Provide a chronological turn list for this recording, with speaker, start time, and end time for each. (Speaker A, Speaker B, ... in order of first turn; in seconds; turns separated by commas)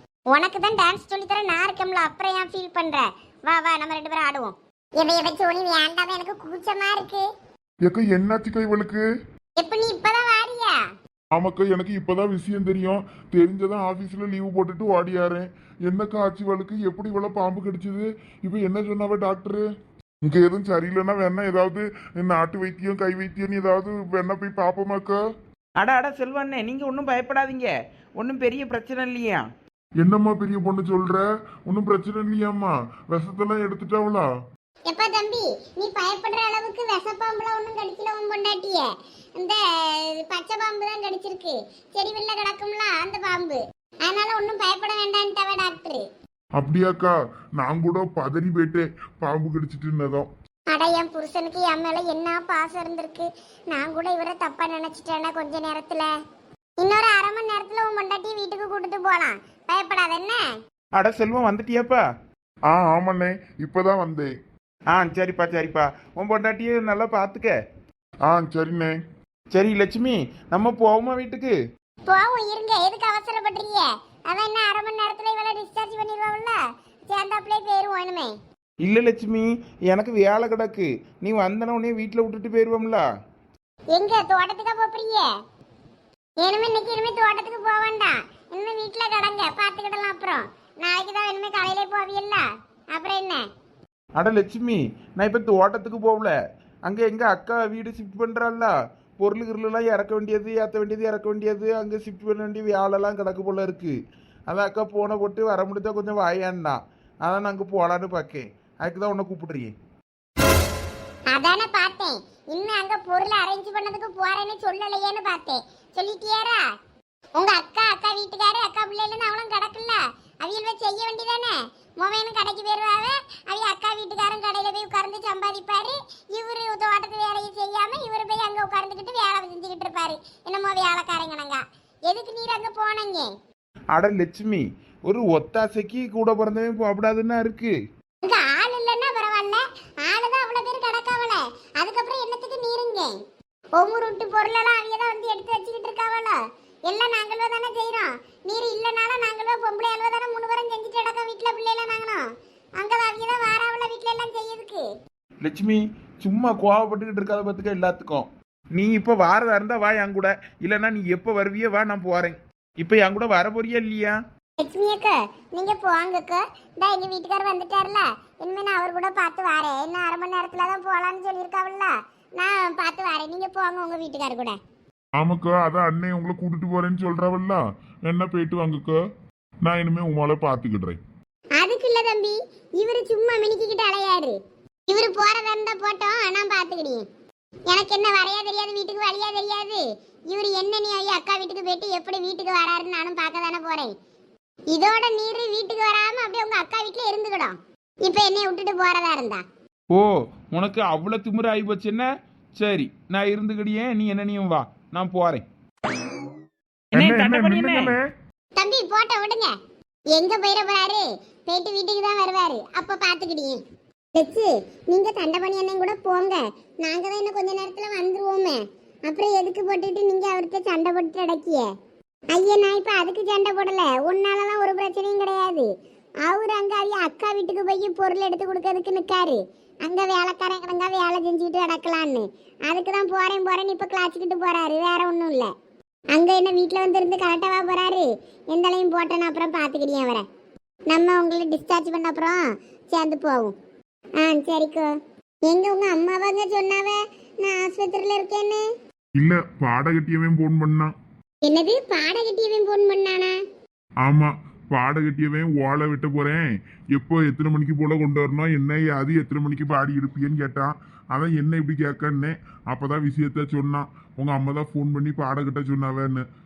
Speaker A: 0.3-7.2, Speaker B: 7.8-9.0, Speaker A: 9.6-10.8, Speaker B: 11.3-19.6, Speaker B: 20.2-25.2, Speaker C: 25.8-29.4, Speaker B: 30.0-34.3, Speaker A: 34.9-46.0, Speaker B: 46.6-50.3, Speaker A: 50.7-56.1, Speaker A: 56.8-60.4, Speaker C: 61.0-62.0, Speaker B: 62.7-64.3, Speaker C: 64.9-67.5, Speaker B: 68.3-69.0, Speaker C: 69.5-71.5, Speaker A: 72.1-76.6, Speaker A: 77.1-78.3, Speaker C: 78.8-83.0, Speaker A: 83.9-85.3, Speaker A: 86.4-92.4, Speaker A: 92.9-93.4, Speaker C: 94.2-96.3, Speaker C: 96.8-103.9, Speaker C: 104.5-109.7, Speaker A: 111.3-116.6, Speaker A: 117.3-133.3, Speaker C: 133.9-137.7, Speaker A: 138.2-143.1, Speaker A: 143.8-152.2, Speaker A: 152.8-154.8, Speaker C: 155.4-164.2, Speaker A: 164.6-174.6, Speaker B: 175.2-179.0, Speaker B: 179.6-181.0, Speaker A: 181.6-184.3, Speaker A: 184.9-187.0, Speaker A: 187.7-193.9, Speaker A: 194.7-199.4, Speaker C: 199.9-205.4, Speaker B: 206.9-208.0, Speaker C: 206.9-207.9, Speaker A: 208.6-209.5, Speaker A: 210.1-213.6, Speaker A: 214.1-221.6, Speaker A: 222.3-225.7, Speaker A: 226.2-235.5, Speaker A: 236.1-240.2, Speaker A: 240.9-243.5, Speaker A: 244.2-244.9, Speaker A: 245.4-248.6, Speaker B: 249.2-250.9, Speaker A: 251.4-253.3, Speaker B: 254.0-266.2